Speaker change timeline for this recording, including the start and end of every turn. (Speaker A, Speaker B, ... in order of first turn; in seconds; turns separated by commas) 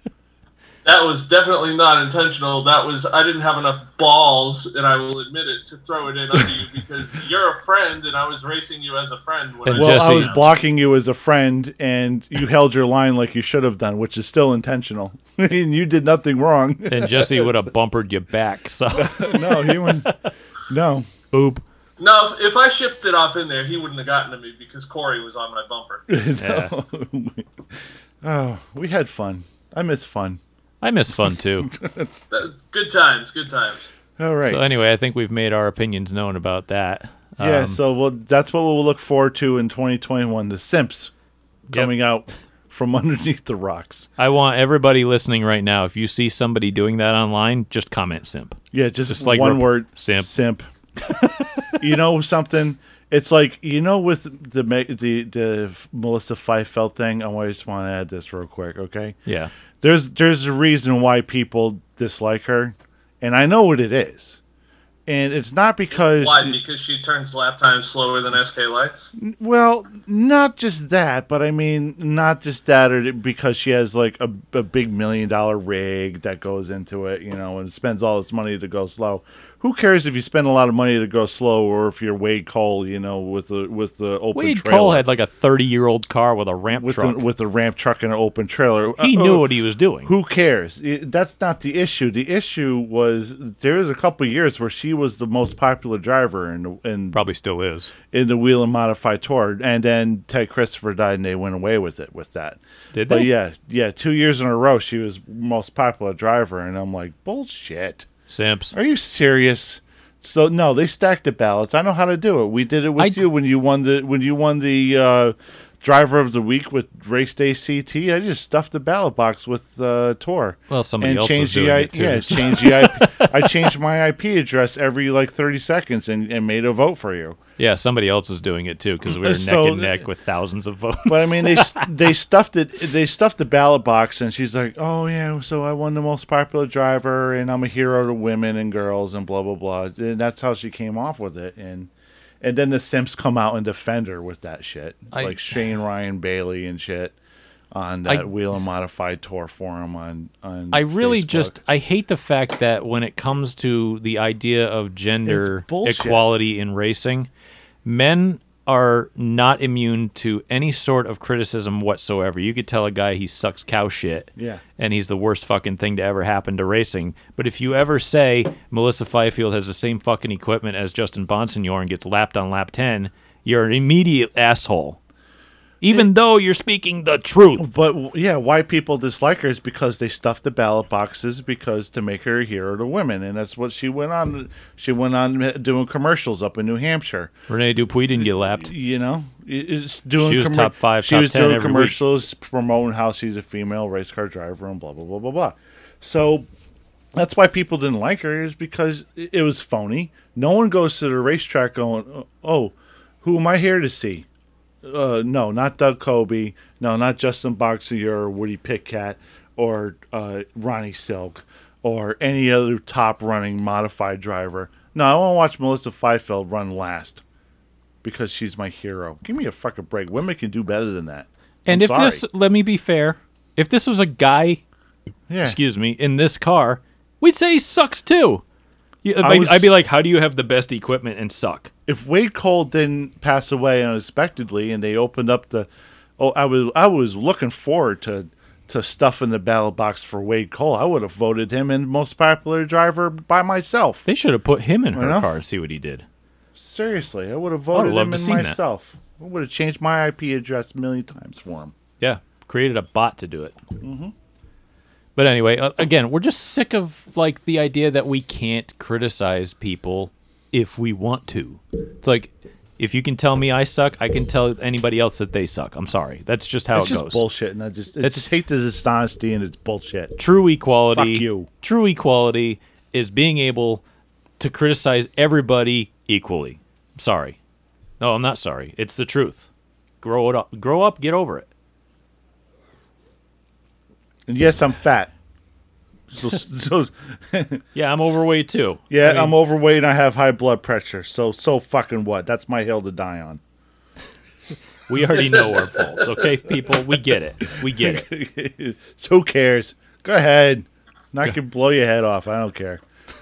Speaker A: 0.8-10.4, Speaker B: 9.7-10.4, Speaker C: 9.7-17.7, Speaker B: 16.9-20.3, Speaker C: 19.0-20.1, Speaker C: 20.7-21.1, Speaker B: 21.3-21.6, Speaker A: 22.0-26.0, Speaker C: 26.1-30.4, Speaker B: 26.4-26.7, Speaker B: 30.8-31.7, Speaker C: 31.1-32.2, Speaker A: 32.3-33.9, Speaker C: 34.2-34.6, Speaker B: 34.4-37.8, Speaker C: 37.4-41.1, Speaker C: 41.7-44.1, Speaker B: 44.2-50.3, Speaker C: 48.7-50.7, Speaker B: 51.0-51.8, Speaker C: 51.8-59.2, Speaker B: 59.2-59.5, Speaker C: 59.8-64.4, Speaker C: 65.0-66.6, Speaker A: 66.2-69.1, Speaker C: 69.2-85.0, Speaker B: 84.3-87.2, Speaker C: 86.7-89.5, Speaker B: 89.0-90.1, Speaker C: 90.0-97.2, Speaker B: 97.1-97.9, Speaker C: 98.1-108.1, Speaker B: 102.9-103.3, Speaker B: 108.3-108.7, Speaker C: 108.7-127.4, Speaker B: 113.0-113.2, Speaker B: 120.7-123.7, Speaker B: 127.6-131.9, Speaker C: 129.1-130.0, Speaker C: 131.1-141.9, Speaker C: 142.4-147.1, Speaker B: 145.1-145.4, Speaker C: 147.7-151.6, Speaker B: 150.7-157.3, Speaker C: 155.2-156.2, Speaker B: 157.8-175.0, Speaker C: 164.3-164.6, Speaker B: 175.8-177.7, Speaker C: 177.6-187.3, Speaker B: 187.5-188.7, Speaker C: 188.2-196.5, Speaker B: 190.2-192.0, Speaker C: 197.1-204.2, Speaker C: 204.8-217.2, Speaker C: 218.0-222.2, Speaker B: 221.7-224.6, Speaker C: 225.3-225.6, Speaker B: 225.4-228.4, Speaker B: 229.0-231.7, Speaker C: 229.2-229.7, Speaker C: 231.9-244.1, Speaker B: 244.1-246.1, Speaker C: 244.9-245.3, Speaker C: 246.5-251.7, Speaker B: 247.7-248.6, Speaker B: 252.0-253.6, Speaker C: 253.8-254.1, Speaker B: 255.2-267.2, Speaker C: 266.7-270.2, Speaker B: 268.0-268.3, Speaker B: 270.2-273.8, Speaker C: 270.9-271.5, Speaker B: 274.4-277.4, Speaker B: 278.0-279.5, Speaker B: 280.0-281.5, Speaker C: 284.3-285.1, Speaker C: 286.1-287.7, Speaker B: 287.7-289.3, Speaker C: 288.9-293.4, Speaker B: 294.9-298.1, Speaker C: 297.5-302.8